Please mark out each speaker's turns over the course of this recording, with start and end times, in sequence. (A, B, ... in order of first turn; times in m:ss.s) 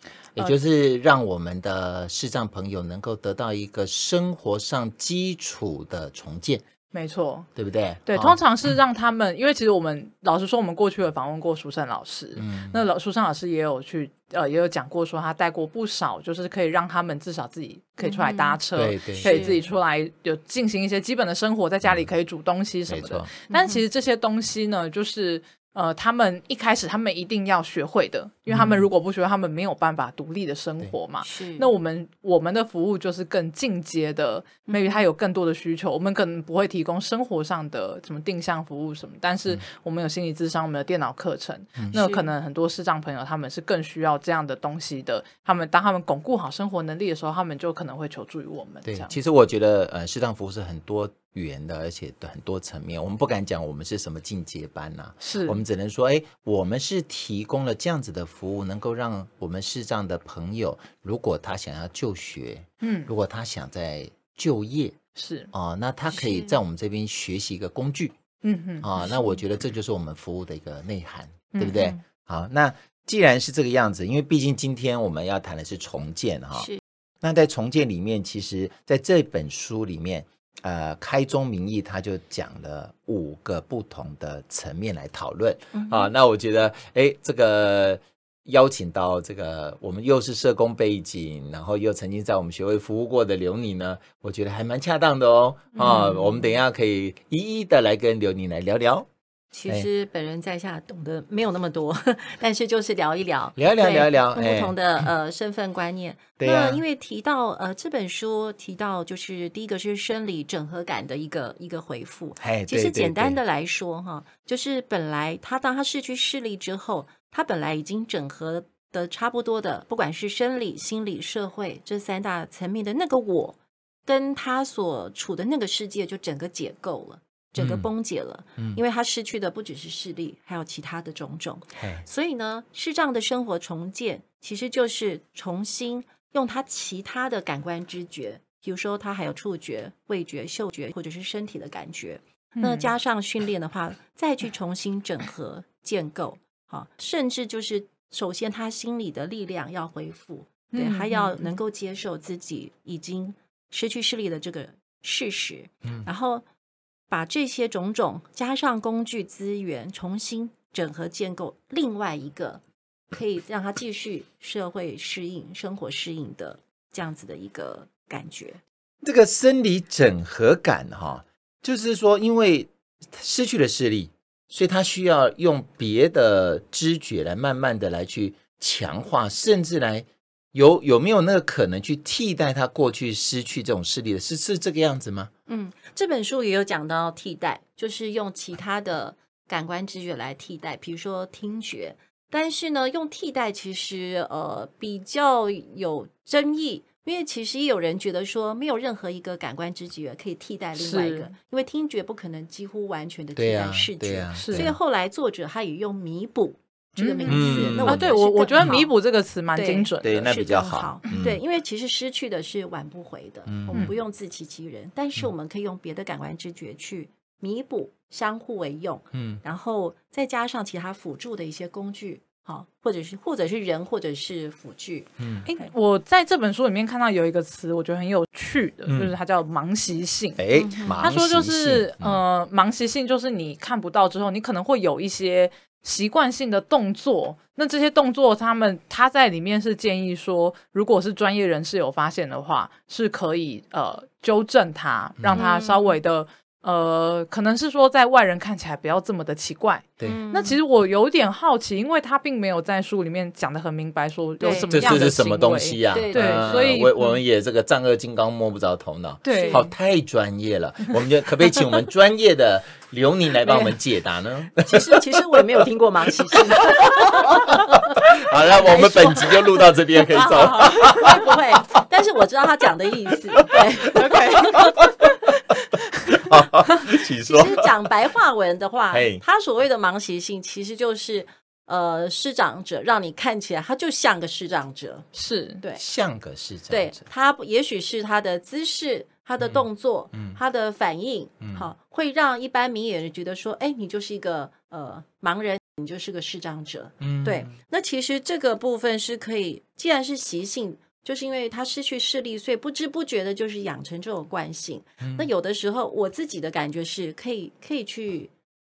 0:00.4-0:06.6 A
0:06.9-0:07.5 B
0:07.6-0:08.4 A
0:08.0-0:49.1 B
0:12.4-0:12.8 A
0:18.0-0:18.6 C
0:18.7-0:19.5 A
0:19.2-0:19.6 C
0:22.9-0:23.3 A
0:23.5-0:23.8 C
0:28.5-0:28.9 A
0:31.2-0:31.7 C
0:34.7-0:35.0 C
0:42.0-0:42.3 C
0:48.8-1:05.0 A
0:55.2-0:55.6 B
1:02.8-1:03.1 B
1:05.2-1:05.5 B
1:05.5-1:08.1 A
1:06.1-1:06.6 C
1:08.4-1:08.9 B
1:08.8-1:16.7 A
1:11.5-1:12.0 B
1:16.6-1:16.8 C
1:17.2-1:39.1 A
1:25.7-1:26.1 C
1:35.8-1:36.2 B
1:39.5-2:36.4 C
1:43.6-1:45.1 A
1:46.4-1:46.8 A
1:52.4-1:53.4 A
2:07.6-2:07.9 A
2:11.8-2:12.0 A
2:22.6-2:22.9 B
2:30.7-2:31.5 B
2:37.1-2:42.6 C
2:43.1-2:48.6 C
2:49.0-3:05.3 A
3:05.5-3:28.9 C
3:20.7-3:21.3 B
3:23.4-3:24.8 A
3:24.3-3:24.7 B
3:27.0-3:30.3 B
3:27.2-3:28.8 A
3:29.5-3:45.7 C
3:30.0-3:31.4 A
3:33.5-3:33.9 A
3:39.1-3:39.4 A
3:45.2-3:45.5 A
3:45.5-4:17.1 B
3:48.9-3:49.1 A
3:50.4-3:52.2 A
3:50.5-3:51.1 C
4:05.2-4:05.4 A
4:05.3-4:06.0 C
4:10.0-4:10.6 C
4:14.4-4:15.1 C
4:14.7-4:25.6 A
4:15.9-4:16.8 C
4:19.2-4:19.7 B
4:19.2-4:19.6 C
4:24.6-4:34.7 C
4:26.6-4:31.3 A
4:33.4-4:35.3 A
4:33.9-4:34.9 B
4:36.1-4:37.7 A
4:36.9-4:45.1 C
4:38.9-4:39.2 A
4:45.1-4:45.6 B
4:45.8-4:47.0 A
4:46.7-5:08.3 C
4:49.4-4:50.4 A
4:51.4-4:51.6 A
4:57.0-4:57.5 A
5:05.0-5:05.3 A